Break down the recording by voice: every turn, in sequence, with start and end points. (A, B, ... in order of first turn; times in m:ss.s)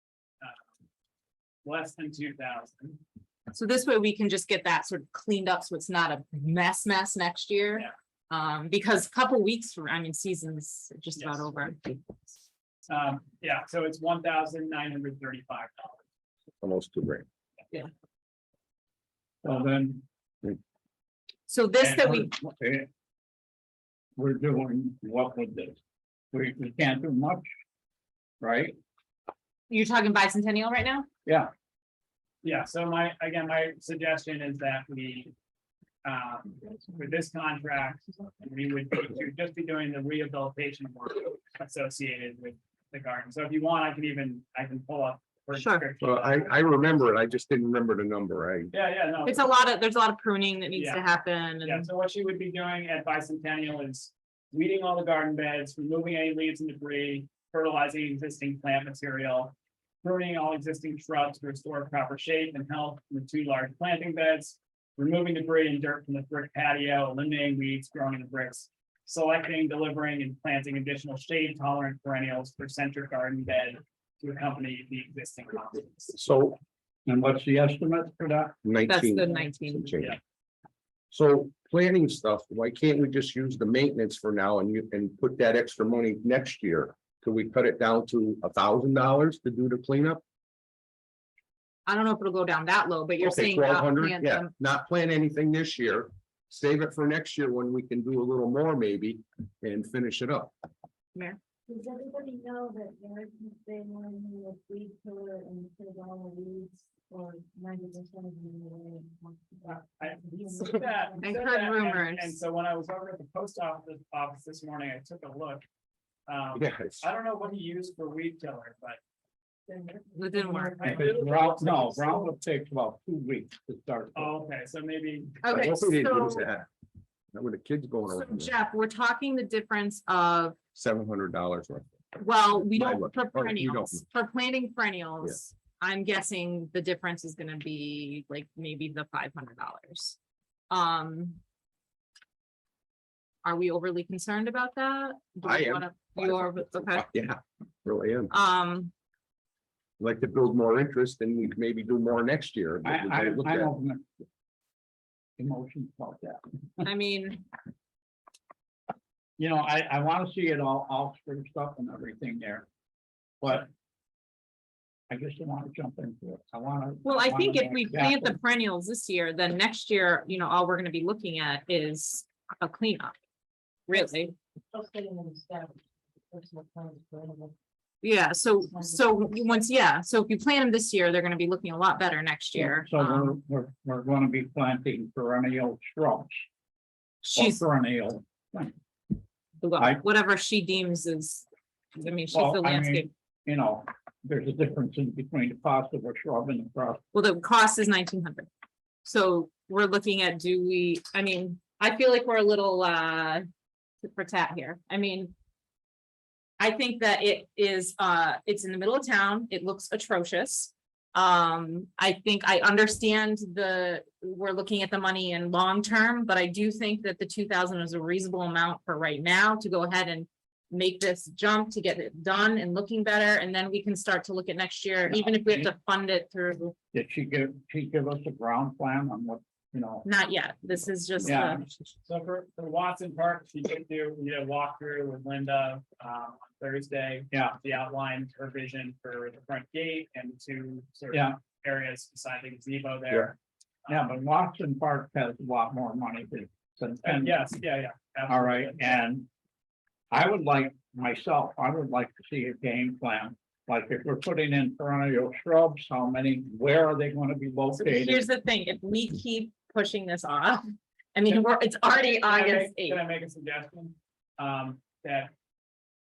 0:00.4-0:00.7 A
0:01.6-0:03.0 A
0:03.5-0:12.0 B
0:11.2-0:11.5 A
0:12.9-0:16.0 A
0:16.6-0:17.2 C
0:19.4-0:20.0 D
0:21.5-0:22.3 B
0:21.8-0:22.9 D
0:24.2-0:25.8 D
0:26.3-0:27.5 D
0:28.4-0:28.8 D
0:29.7-0:31.1 B
0:31.3-0:31.5 D
0:32.4-0:35.3 A
0:36.0-0:46.6 A
0:45.5-0:45.8 B
0:46.0-0:48.7 C
0:48.7-0:49.5 A
0:49.2-0:51.9 B
0:50.8-0:51.0 A
0:51.6-1:16.2 A
1:16.2-1:16.6 C
1:17.1-1:18.6 D
1:18.6-1:20.2 C
1:18.9-1:20.0 B
1:21.1-1:30.2 C
1:31.9-1:34.5 B
1:33.2-1:40.5 C
1:41.7-1:49.8 E
1:49.9-1:55.6 A
1:51.2-1:52.3 B
1:56.3-1:59.0 A
1:56.6-1:57.0 C
1:59.7-2:01.3 E
2:00.1-2:00.8 B
2:00.4-2:02.3 A
2:00.8-2:04.3 D
2:04.2-2:05.4 A
2:05.4-2:06.5 B
2:05.5-2:06.7 C
2:07.3-2:08.5 C
2:08.1-2:10.6 B
2:10.8-2:12.0 C
2:12.2-2:20.2 B
2:12.7-2:14.0 C
2:20.7-2:21.4 B
2:23.4-2:27.1 B
2:25.4-2:28.3 C
2:28.3-2:28.9 B
2:30.0-2:33.7 C
2:32.8-2:34.1 D
2:35.4-2:36.8 D
2:36.8-2:37.4 B
2:39.4-2:42.7 D
2:43.4-2:43.7 D
2:45.1-2:48.4 D
2:47.0-2:53.2 B
2:53.9-2:54.3 B
2:54.7-2:55.7 E
2:56.3-2:57.5 E
2:58.0-3:03.4 B
3:02.5-3:06.4 D
3:07.2-3:07.6 B
3:07.3-3:08.7 D
3:09.6-3:11.5 B
3:12.0-3:13.1 B
3:12.3-3:17.0 D
3:17.1-3:18.5 B
3:19.0-3:23.4 B
3:24.0-3:25.3 B
3:26.6-3:46.8 B
3:45.1-3:45.7 D
3:46.9-3:50.1 D
3:50.0-3:51.7 B
3:51.2-3:51.7 D
3:52.0-4:04.1 A
3:57.3-3:57.6 D
4:01.1-4:01.4 D
4:03.9-4:07.4 D
4:07.0-4:09.0 A
4:08.3-4:09.3 D
4:10.1-4:18.2 D
4:17.7-4:23.0 B
4:22.2-4:25.3 A